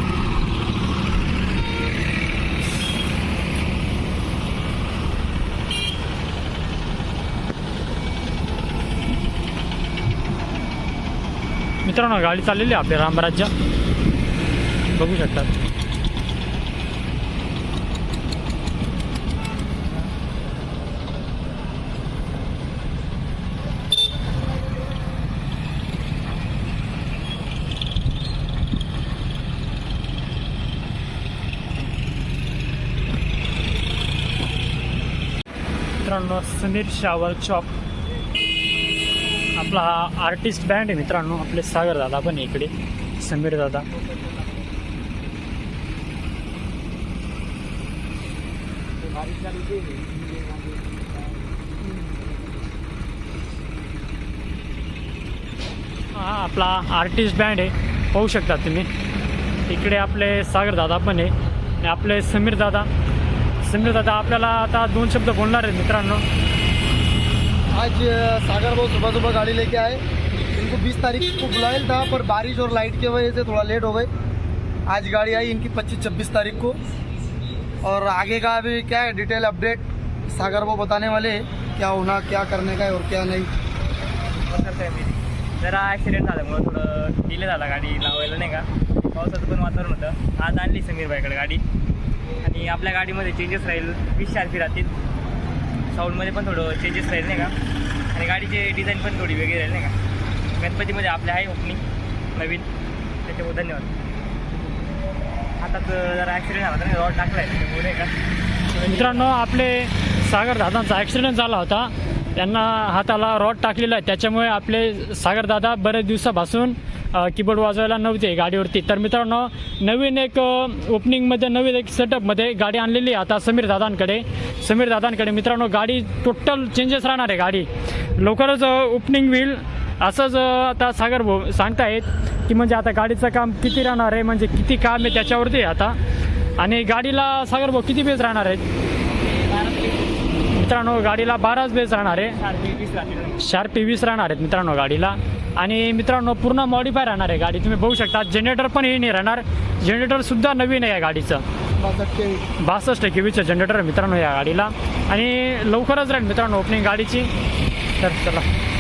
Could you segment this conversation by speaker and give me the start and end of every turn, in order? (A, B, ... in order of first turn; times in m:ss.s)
0:11.8-0:13.5 A
0:14.9-0:15.5 A
0:36.0-0:37.7 A
0:39.6-0:43.9 A
0:49.2-0:50.6 B
0:56.1-0:58.9 A
0:59.7-1:02.9 A
1:03.6-1:06.2 A
1:07.8-1:10.0 C
1:10.6-1:14.1 C
1:14.9-1:16.8 C
1:17.8-1:23.5 C
1:24.5-1:31.6 B
1:32.4-1:34.9 B
1:35.9-1:37.5 B
1:38.1-1:39.9 B
1:40.6-1:41.8 B
1:42.4-1:42.7 B
1:43.2-1:43.9 B
1:45.6-1:48.1 B
1:48.8-1:49.3 B
1:48.8-2:16.0 A
2:16.6-2:18.6 A
2:19.2-2:20.1 B
2:20.5-2:22.4 A
2:22.3-2:23.4 B
2:23.4-2:31.4 A
2:31.8-2:32.4 C
2:32.6-2:37.3 A
2:38.0-2:38.5 A